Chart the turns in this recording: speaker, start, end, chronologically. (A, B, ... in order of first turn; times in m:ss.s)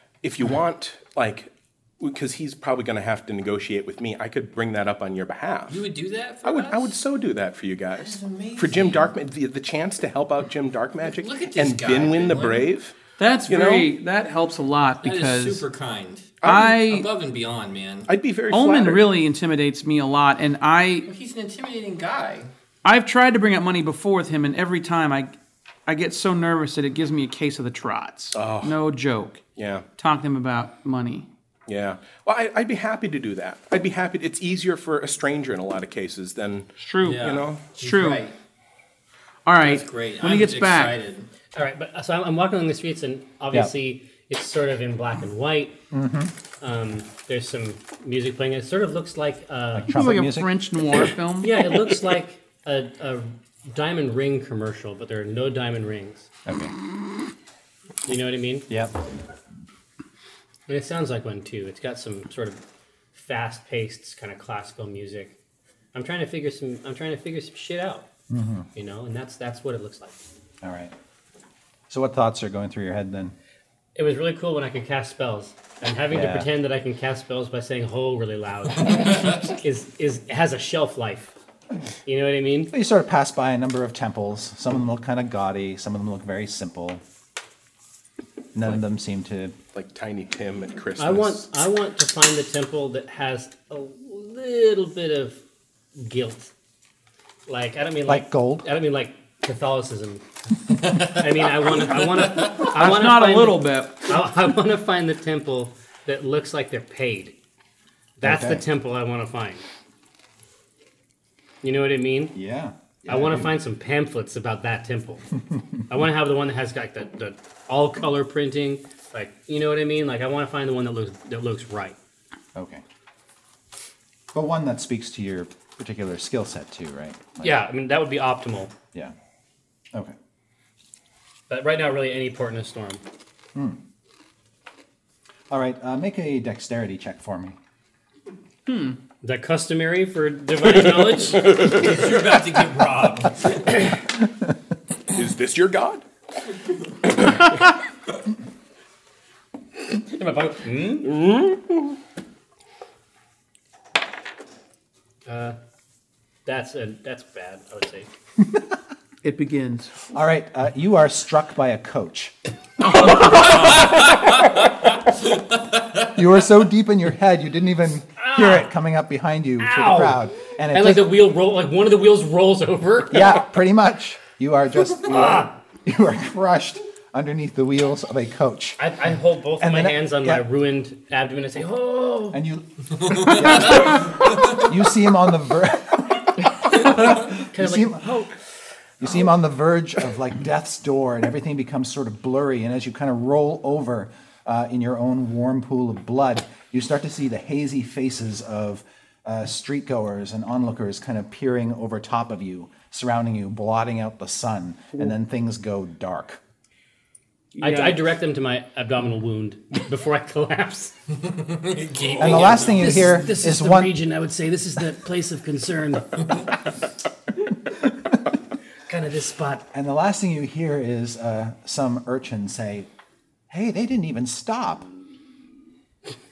0:00.2-0:05.8 A
0:05.7-0:07.0 B
0:06.4-0:13.0 A
0:07.9-0:09.1 B
0:11.0-0:12.7 B
0:13.2-0:15.6 C
0:13.5-0:13.9 A
0:15.0-0:18.1 B
0:16.4-0:16.7 A
0:16.4-0:17.1 C
0:18.1-0:19.1 A
0:18.5-0:21.1 C
0:21.1-0:22.5 B
0:22.8-0:25.4 C
0:25.9-0:29.4 C
0:28.3-0:28.8 A
0:29.6-0:29.9 A
0:30.0-0:31.3 C
0:31.7-0:37.7 A
0:36.8-0:37.2 C
0:37.0-0:38.4 B
0:37.8-0:38.2 C
0:39.4-0:41.0 C
0:39.6-0:41.3 B
0:41.5-0:45.8 D
0:45.9-0:46.3 E
0:46.6-0:49.9 D
0:49.7-0:50.5 E
0:49.9-0:51.7 C
0:51.4-0:56.3 D
0:56.5-0:56.7 E
0:58.1-0:58.7 D
0:58.7-0:59.0 E
1:00.7-1:02.6 D
1:03.1-1:05.4 D
1:05.9-1:08.1 D
1:08.3-1:08.7 E
1:08.8-1:10.2 D
1:10.6-1:10.9 E
1:11.9-1:13.4 E
1:14.0-1:21.3 D
1:16.1-1:16.5 E
1:19.0-1:19.3 B
1:22.1-1:22.7 D
1:22.7-1:27.0 E
1:28.5-1:29.6 E
1:29.7-1:31.5 A
1:31.0-1:35.4 D
1:36.0-1:36.5 D
1:37.5-1:47.4 D
1:38.0-1:38.6 E
1:42.5-1:44.2 C
1:48.2-1:49.6 D
1:48.2-1:48.6 E
1:51.6-1:52.4 D
1:52.4-1:53.6 E
1:53.1-1:55.3 D
1:55.9-2:02.0 D
2:02.6-2:02.8 E
2:04.3-2:07.6 E
2:07.4-2:08.7 D
2:11.5-2:13.0 D
2:15.5-2:17.6 E
2:18.7-2:19.0 C
2:19.2-2:21.6 D
2:20.6-2:22.0 A
2:21.5-2:23.6 B
2:25.1-2:26.0 A
2:27.1-2:27.6 A
2:29.9-2:31.1 D
2:31.0-2:31.9 A
2:35.3-2:35.6 D
2:36.5-2:38.1 D
2:38.4-2:38.7 E
2:39.2-2:40.0 C
2:40.1-2:42.4 E
2:43.0-2:43.5 C
2:43.5-2:44.7 B
2:46.1-2:51.1 E
2:48.2-2:48.7 D
2:49.6-2:53.4 D
2:53.1-2:58.8 E
2:55.1-2:55.5 D
2:58.8-3:02.4 D
2:59.6-3:00.4 E
3:02.3-3:08.3 E
3:03.1-3:04.5 B
3:06.7-3:08.3 D
3:09.0-3:26.4 E
3:27.5-3:28.1 C
3:27.6-3:30.9 D
3:31.1-3:33.1 B
3:32.2-3:34.0 E
3:32.3-3:36.4 D
3:38.9-3:39.6 D
3:39.7-3:42.9 E
3:43.5-3:44.9 E